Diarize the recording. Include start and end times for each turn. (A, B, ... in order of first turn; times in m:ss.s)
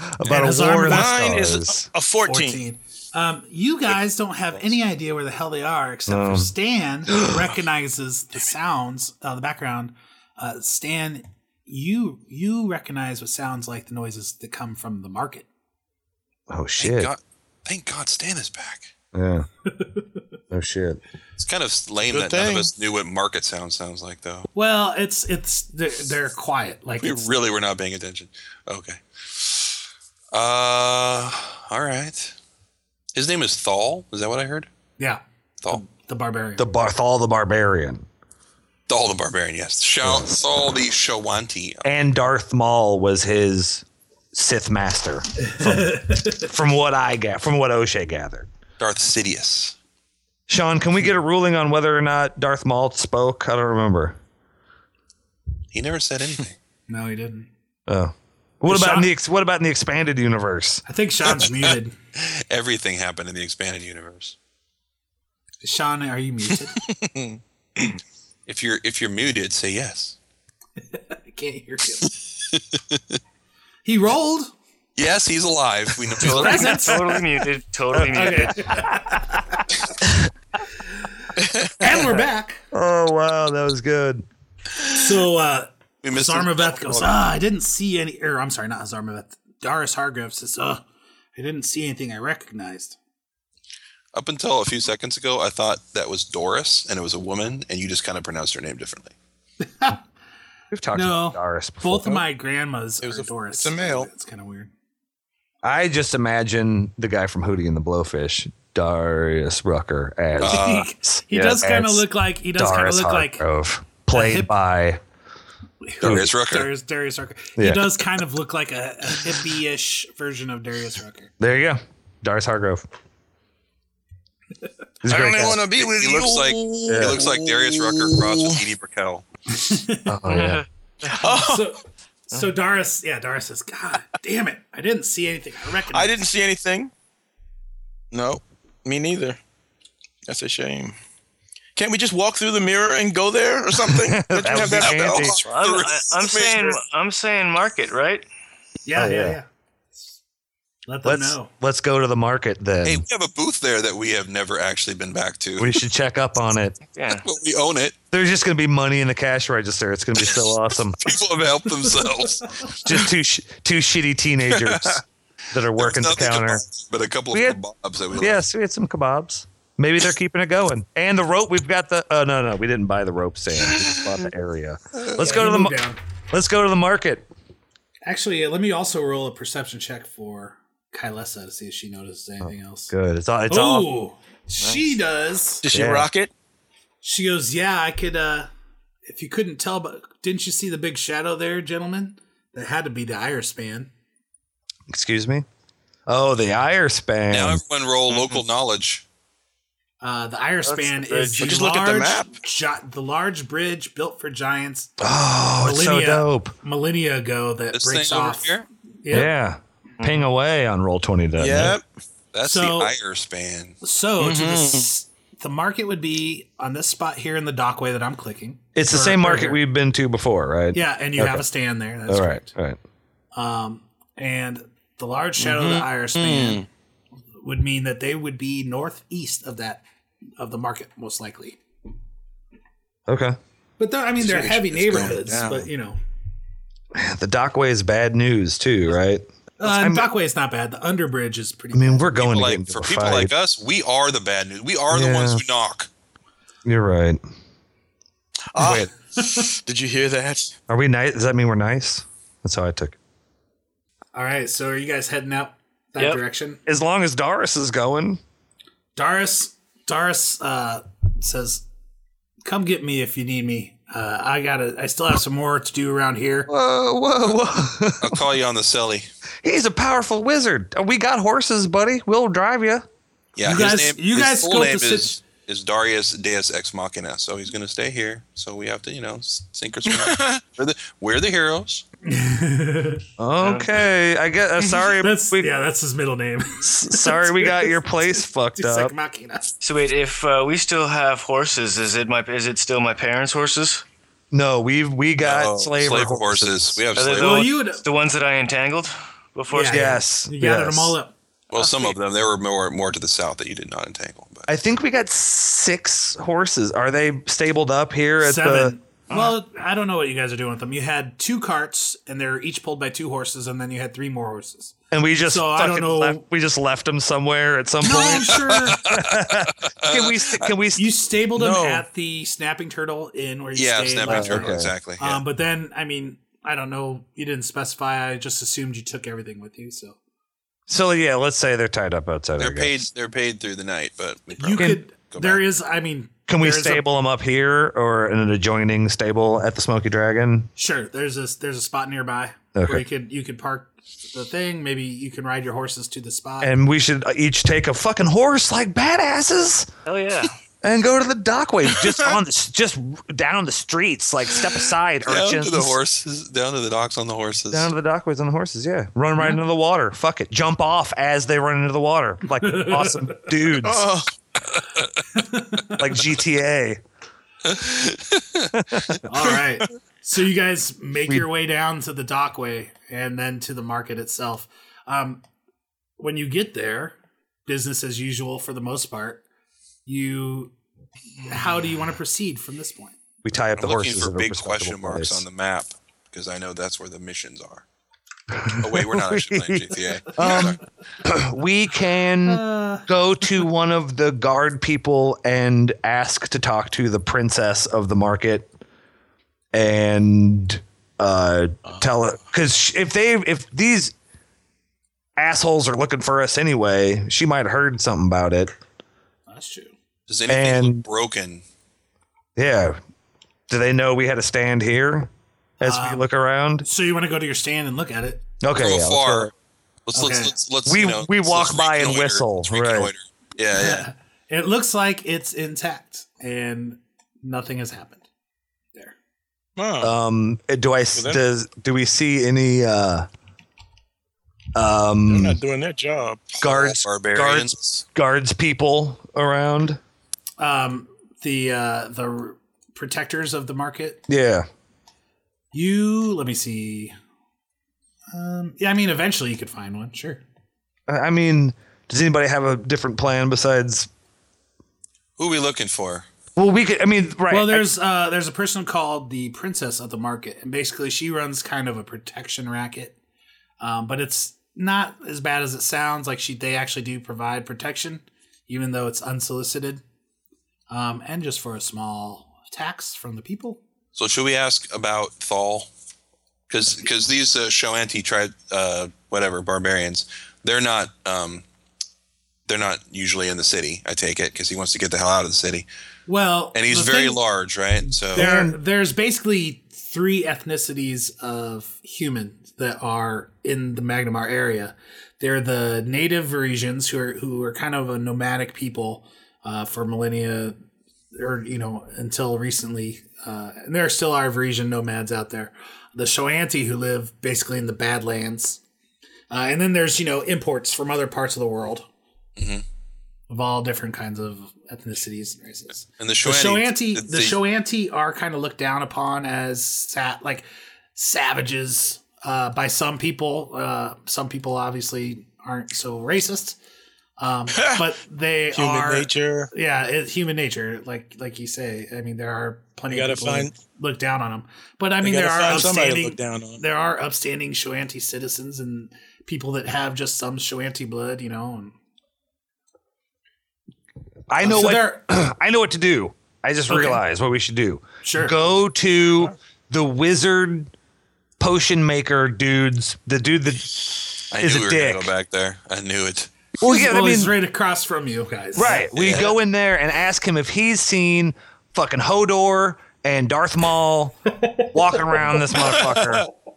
0:00.2-0:01.9 A
0:00.2-0:01.1 B
0:00.8-0:02.6 C
0:02.2-0:15.5 B
0:06.1-0:06.5 A
0:16.5-0:17.1 A
0:16.8-0:18.9 D
0:19.1-0:19.5 A
0:20.5-0:21.0 A
0:21.4-0:24.5 D
0:22.1-0:22.7 C
0:24.5-0:27.2 B
0:27.0-0:29.6 D
0:30.3-0:32.3 D
0:33.1-0:34.7 D
0:35.0-0:36.7 B
0:36.6-0:38.0 A
0:38.9-0:41.9 D
0:40.0-0:40.3 A
0:41.8-0:48.5 A
0:45.5-0:46.4 B
0:48.8-0:49.8 D
0:50.5-0:54.2 A
0:55.7-0:56.6 D
0:56.9-0:57.5 B
0:57.9-1:00.8 A
0:58.6-0:59.1 B
1:00.9-1:01.9 B
1:02.2-1:04.3 D
1:05.6-1:06.8 B
1:06.8-1:07.4 C
1:08.5-1:10.2 D
1:10.9-1:12.1 B
1:12.5-1:13.2 D
1:13.8-1:14.5 B
1:15.0-1:16.8 D
1:16.2-1:18.7 E
1:16.3-1:17.0 B
1:17.9-1:19.2 A
1:18.1-1:19.4 B
1:21.4-1:21.7 C
1:21.8-1:22.6 B
1:22.7-1:24.2 A
1:24.9-1:30.8 B
1:26.0-1:27.2 D
1:31.3-1:33.0 B
1:34.1-1:39.1 D
1:39.6-1:40.0 B
1:40.7-1:42.2 A
1:40.9-1:44.7 B
1:43.0-1:44.1 C
1:45.6-1:55.0 A
1:50.4-1:50.9 D
1:50.4-1:53.4 B
1:54.1-1:54.5 B
1:55.8-2:01.3 B
1:56.0-1:56.7 D
1:56.0-1:56.3 A
1:57.6-1:57.8 A
2:01.4-2:02.8 A
2:05.0-2:05.6 A
2:05.0-2:08.6 C
2:05.7-2:09.2 D
2:06.9-2:07.2 A
2:09.5-2:10.1 B
2:10.1-2:10.6 A
2:10.3-2:11.2 E
2:11.1-2:11.7 C
2:11.2-2:16.2 B
2:15.9-2:16.9 C
2:18.1-2:19.4 C
2:20.3-2:20.9 C
2:21.8-2:25.3 C
2:23.9-2:25.4 A
2:24.6-2:26.8 D
2:25.4-2:28.2 E
2:28.8-2:29.4 B
2:29.0-2:29.4 A
2:30.9-2:31.5 B
2:31.0-2:33.0 A
2:32.8-2:35.8 D
2:35.6-2:36.8 A
2:36.9-2:37.2 E
2:37.2-2:37.9 D
2:38.1-2:41.0 A
2:41.0-2:42.8 D
2:42.8-2:46.6 A
2:44.6-2:45.0 D
2:45.8-2:48.4 D
2:47.3-2:47.6 A
2:48.2-2:57.3 A
2:55.2-2:56.0 B
2:58.0-3:02.9 B
3:02.4-3:03.9 A
3:03.5-3:05.6 B
3:05.6-3:06.3 C
3:05.7-3:06.1 A
3:07.0-3:08.5 B
3:09.0-3:13.9 B
3:14.9-3:15.4 A
3:16.1-3:17.6 A
3:17.3-3:19.0 D
3:20.0-3:25.0 B
3:20.6-3:21.4 E
3:21.4-3:22.4 C
3:25.0-3:26.5 A
3:25.6-3:29.3 B
3:27.7-3:28.7 D
3:29.1-3:31.8 A
3:31.4-3:31.8 C
3:32.3-3:33.8 D
3:32.4-3:32.9 B
3:33.8-3:39.6 B
3:34.2-3:34.9 C
3:38.7-3:41.4 A
3:40.7-3:42.5 B
3:42.1-3:42.8 A
3:43.3-3:46.6 B
3:45.4-3:46.6 C
3:47.4-3:49.8 B
3:50.4-3:51.6 B
3:53.1-3:53.4 A
3:53.8-3:56.0 B
3:54.2-3:55.7 C
3:56.9-4:00.1 A
3:59.6-4:02.1 B
4:01.7-4:03.3 A
4:02.2-4:05.9 D
4:04.9-4:05.4 A
4:06.6-4:07.2 A
4:08.6-4:08.9 A
4:08.6-4:10.5 C
4:09.2-4:09.5 B
4:10.7-4:13.0 A
4:14.1-4:16.6 B
4:16.6-4:18.2 A
4:19.0-4:21.6 B
4:22.4-4:26.5 B
4:26.5-4:28.2 A
4:28.0-4:29.1 D
4:29.4-4:32.8 A
4:33.4-4:41.8 D
4:33.4-4:35.2 B
4:39.9-4:40.4 C
4:42.0-4:43.0 B
4:43.2-4:45.5 A
4:43.4-4:43.8 E
4:45.0-4:49.5 B
4:46.6-4:48.9 A
4:49.6-4:53.8 E
4:54.3-4:56.8 A
4:55.2-4:57.5 D
4:57.0-5:00.0 E
4:57.2-4:57.8 B
4:59.5-5:01.1 B
4:59.7-5:01.0 A
5:01.5-5:04.5 D
5:04.5-5:08.7 A
5:08.2-5:16.2 B
5:14.9-5:20.9 A
5:17.8-5:18.8 B
5:18.4-5:20.5 D
5:20.8-5:30.0 B
5:21.4-5:21.8 C
5:23.5-5:25.2 D
5:24.1-5:24.7 A
5:30.7-5:32.8 A
5:32.4-5:35.4 D
5:34.4-5:36.8 B
5:36.3-5:40.5 A
5:40.6-5:46.5 B
5:42.5-5:42.8 A
5:46.4-5:49.7 A
5:49.8-5:50.3 E
5:50.6-5:55.8 A
5:55.0-5:57.7 D
5:57.5-6:03.9 A
6:02.4-6:03.2 B
6:03.6-6:04.1 C
6:05.1-6:05.8 B
6:05.8-6:06.8 A
6:07.4-6:08.5 D
6:08.5-6:08.9 A
6:09.1-6:15.2 B
6:16.0-6:17.0 B
6:17.5-6:19.2 B
6:19.8-6:20.5 B
6:21.2-6:23.0 B
6:23.2-6:25.2 A
6:23.6-6:27.6 D
6:28.4-6:38.5 A
6:28.5-6:30.6 D
6:32.2-6:32.9 B
6:39.5-6:43.9 A
6:45.2-6:48.5 A
6:49.3-6:49.7 B
6:50.1-6:51.4 D
6:50.3-6:50.8 A
6:52.4-6:52.8 A
6:53.5-6:55.1 A
6:55.6-6:56.6 A
6:55.6-6:56.0 B
6:56.6-6:58.2 B
6:58.4-6:59.3 A
6:58.5-6:59.3 D
6:59.8-7:03.9 D
6:59.9-7:00.3 B
7:00.6-7:02.9 A
7:03.5-7:08.0 B
7:09.6-7:09.9 C
7:09.8-7:13.1 A
7:10.9-7:11.2 C
7:14.5-7:15.4 A
7:15.1-7:16.3 C
7:16.3-7:17.8 D
7:16.4-7:19.8 A
7:20.4-7:24.0 B
7:24.1-7:24.4 A
7:25.5-7:26.9 B
7:28.1-7:30.2 B
7:30.9-7:33.9 A
7:35.2-7:36.0 D
7:36.4-7:37.7 A
7:37.3-7:43.0 B
7:43.6-7:49.8 B
7:50.7-7:53.6 B
7:53.9-7:55.7 D
7:56.5-8:01.4 D
8:02.5-8:05.7 D
8:06.1-8:07.2 B
8:06.5-8:08.3 D
8:07.9-8:20.6 B
8:08.1-8:08.6 A
8:21.1-8:28.6 B
8:29.3-8:31.8 B
8:32.4-8:32.6 D
8:33.3-8:46.6 B
8:36.0-8:37.4 D
8:47.2-9:01.7 B
8:47.5-8:47.8 C
8:48.5-8:49.5 C
8:52.9-8:53.6 C
8:55.0-8:56.6 C
9:04.3-9:10.7 A
9:04.4-9:05.0 B
9:06.7-9:07.0 B
9:08.0-9:08.4 B
9:11.4-9:15.1 A
9:14.3-9:16.3 D
9:16.6-9:17.3 A
9:16.6-9:18.9 B
9:18.5-9:26.2 A
9:19.0-9:19.3 D
9:25.7-9:26.2 C